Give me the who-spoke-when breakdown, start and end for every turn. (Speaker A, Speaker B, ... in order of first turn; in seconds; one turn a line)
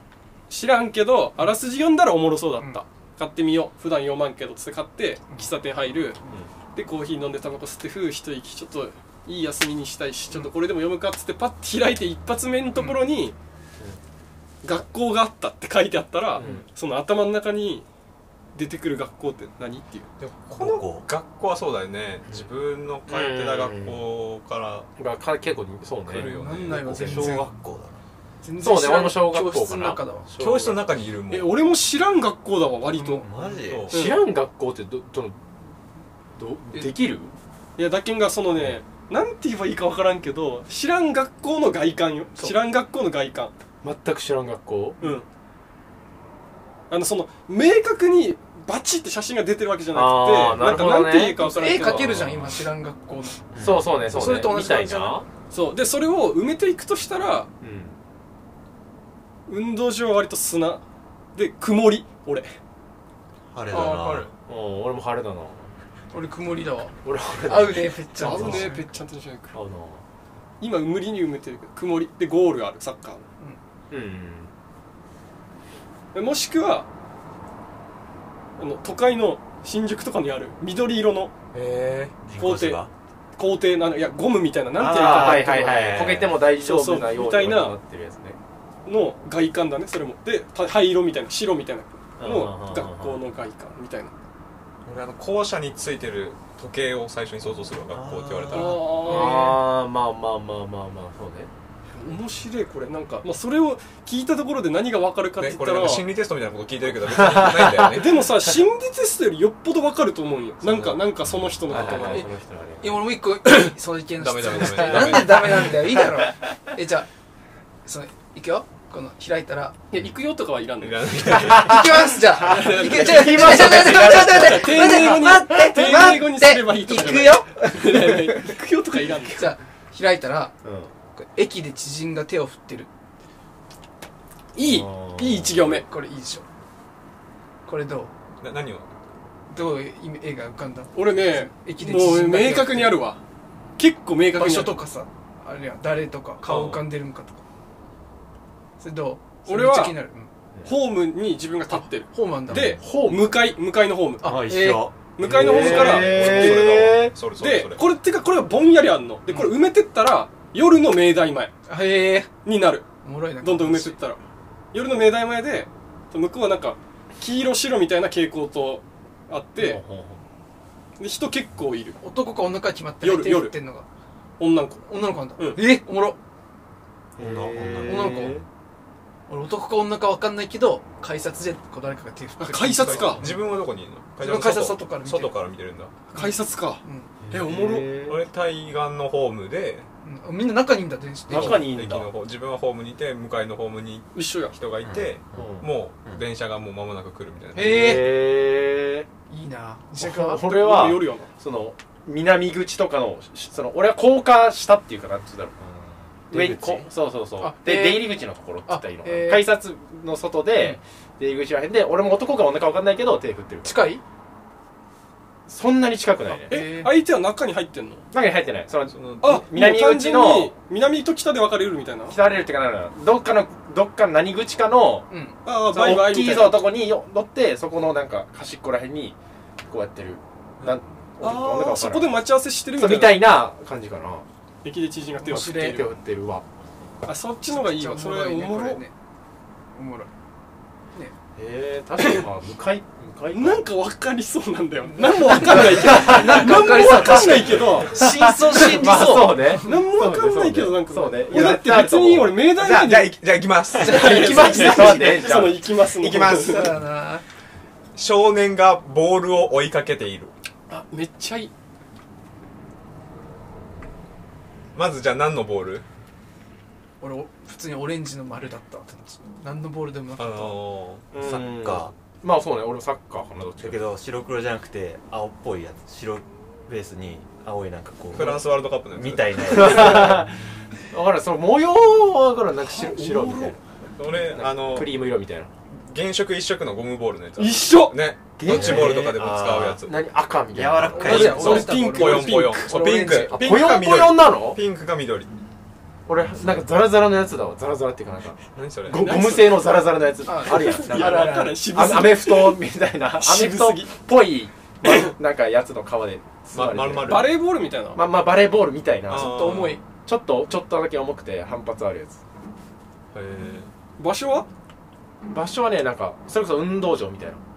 Speaker A: 0.5-6.2
Speaker A: 6.8-13.3
Speaker A: 14.6-17.9
Speaker B: 16.4-16.7
Speaker A: 18.6-20.1
Speaker C: 20.2-24.9
Speaker D: 20.6-21.1
Speaker B: 23.1-24.0
Speaker B: 25.0-26.3
Speaker C: 26.1-27.4
Speaker E: 26.1-27.5
Speaker D: 26.8-28.0
Speaker B: 27.1-27.4
Speaker E: 28.4-30.3
Speaker B: 28.6-30.9
Speaker C: 30.4-31.6
Speaker A: 31.3-33.2
Speaker E: 32.9-33.4
Speaker D: 33.2-34.0
Speaker C: 33.5-34.0
Speaker B: 33.9-35.7
Speaker A: 33.9-34.2
Speaker B: 36.4-37.3
Speaker A: 37.8-43.5
Speaker B: 43.8-45.0
Speaker A: 46.9-52.1
Speaker B: 49.9-52.5
Speaker E: 51.5-53.4
Speaker D: 53.5-54.0
Speaker B: 53.6-55.3
Speaker E: 54.0-55.2
Speaker A: 55.5-57.5
Speaker B: 57.6-58.0
Speaker A: 59.5-60.8
Speaker A: 61.4-62.5
Speaker D: 63.5-64.3
Speaker E: 63.7-64.3
Speaker B: 64.5-65.7
Speaker E: 66.1-68.9
Speaker B: 67.0-68.7
Speaker A: 68.2-69.6
Speaker B: 69.5-70.0
Speaker A: 70.6-73.2
Speaker B: 73.9-74.5
Speaker A: 76.1-76.9
Speaker A: 78.6-81.3
Speaker C: 81.5-82.2
Speaker D: 82.2-82.9
Speaker A: 82.4-82.8
Speaker A: 83.4-87.8
Speaker B: 84.8-88.4
Speaker D: 84.8-86.3
Speaker A: 88.9-94.1
Speaker B: 92.2-93.2
Speaker C: 94.8-98.8
Speaker D: 97.9-98.8
Speaker A: 98.5-99.6
Speaker E: 98.5-99.6
Speaker B: 99.0-101.5
Speaker A: 101.9-106.1
Speaker C: 105.4-108.3
Speaker B: 107.0-108.0
Speaker A: 107.8-112.3
Speaker C: 110.6-111.0
Speaker D: 111.3-111.6
Speaker B: 111.7-113.0
Speaker E: 112.8-117.1
Speaker C: 114.2-115.7
Speaker B: 114.8-115.5
Speaker E: 117.8-119.8
Speaker A: 119.9-121.6
Speaker C: 120.8-121.8
Speaker E: 121.5-128.5
Speaker A: 122.3-129.5
Speaker B: 122.5-125.2
Speaker E: 129.3-130.5
Speaker B: 130.6-130.9
Speaker E: 131.2-132.9
Speaker A: 134.6-135.9
Speaker B: 134.6-135.7
Speaker E: 135.8-136.4
Speaker E: 137.7-138.1
Speaker C: 138.4-138.9
Speaker E: 139.5-143.0
Speaker A: 140.9-143.2
Speaker A: 143.8-144.8
Speaker E: 144.4-147.4
Speaker C: 146.4-146.8
Speaker E: 148.8-150.3
Speaker A: 149.5-150.0
Speaker A: 150.7-154.3
Speaker E: 151.7-152.8
Speaker B: 152.5-153.4
Speaker E: 154.2-154.9
Speaker D: 154.2-155.4
Speaker A: 155.1-161.5
Speaker B: 155.2-157.2
Speaker C: 155.4-157.8
Speaker E: 159.3-159.6
Speaker E: 161.7-162.3
Speaker A: 162.4-162.9
Speaker E: 163.0-164.0
Speaker A: 163.4-164.2
Speaker A: 164.7-169.8
Speaker B: 169.6-170.2
Speaker A: 171.0-172.0
Speaker E: 172.0-173.9
Speaker A: 173.0-173.6
Speaker A: 174.4-175.6
Speaker E: 174.9-176.2
Speaker D: 177.2-178.4
Speaker B: 177.2-178.4
Speaker E: 177.8-178.4
Speaker E: 179.3-183.4
Speaker A: 182.4-183.2
Speaker C: 182.8-185.9
Speaker E: 184.2-185.4
Speaker A: 186.1-187.9
Speaker E: 186.1-187.1
Speaker B: 187.3-188.2
Speaker C: 188.1-189.9
Speaker E: 190.0-191.7
Speaker B: 191.3-192.1
Speaker C: 191.3-198.0
Speaker A: 194.1-194.6
Speaker D: 194.8-196.2
Speaker B: 195.3-195.7
Speaker E: 197.6-198.1
Speaker B: 197.6-199.1
Speaker E: 199.3-200.5
Speaker B: 200.0-205.6
Speaker A: 200.4-201.3
Speaker D: 205.7-206.9
Speaker B: 206.3-213.9
Speaker E: 207.4-209.5
Speaker E: 213.6-214.0
Speaker B: 215.5-216.6
Speaker E: 216.3-216.9
Speaker A: 216.5-218.0
Speaker B: 218.1-220.5
Speaker C: 218.9-219.2
Speaker A: 219.2-222.2
Speaker B: 222.1-225.1
Speaker E: 225.1-225.4
Speaker A: 225.4-226.6
Speaker B: 225.7-229.2
Speaker B: 229.7-232.2
Speaker A: 231.2-233.2
Speaker B: 232.8-234.3
Speaker A: 234.6-235.9
Speaker E: 235.2-235.8
Speaker B: 235.3-236.4
Speaker A: 237.1-238.8
Speaker E: 237.5-238.9
Speaker E: 239.8-240.1
Speaker B: 241.4-243.6
Speaker A: 242.0-242.3
Speaker A: 243.3-247.9
Speaker E: 244.9-249.6
Speaker B: 245.5-252.4
Speaker A: 248.9-253.2
Speaker C: 252.6-256.8
Speaker A: 253.7-256.7
Speaker E: 253.8-255.1
Speaker B: 253.9-255.6
Speaker E: 256.3-257.2
Speaker C: 258.0-260.3
Speaker A: 260.7-261.5
Speaker C: 264.7-265.9
Speaker E: 267.0-270.6
Speaker C: 270.2-271.1
Speaker B: 271.1-273.9
Speaker D: 271.1-271.9
Speaker D: 273.6-280.3
Speaker C: 278.1-280.1
Speaker B: 279.5-280.3
Speaker B: 280.9-283.6
Speaker A: 282.6-283.6
Speaker C: 284.0-285.0
Speaker B: 284.1-285.5
Speaker C: 285.9-289.9
Speaker A: 287.4-288.0
Speaker B: 288.4-291.6
Speaker D: 288.4-289.8
Speaker D: 290.5-291.7
Speaker E: 291.0-293.4
Speaker C: 291.0-295.3
Speaker A: 291.1-292.7
Speaker B: 293.3-294.6
Speaker A: 293.4-293.9
Speaker B: 296.1-307.4
Speaker C: 298.6-299.2
Speaker A: 298.9-299.6
Speaker E: 300.3-301.8
Speaker A: 300.5-304.0
Speaker A: 304.8-305.1
Speaker C: 306.5-307.4
Speaker A: 307.1-308.0
Speaker B: 307.9-312.2
Speaker C: 309.1-309.8
Speaker E: 309.1-309.8
Speaker C: 313.1-313.7
Speaker A: 314.0-314.5
Speaker B: 315.3-317.4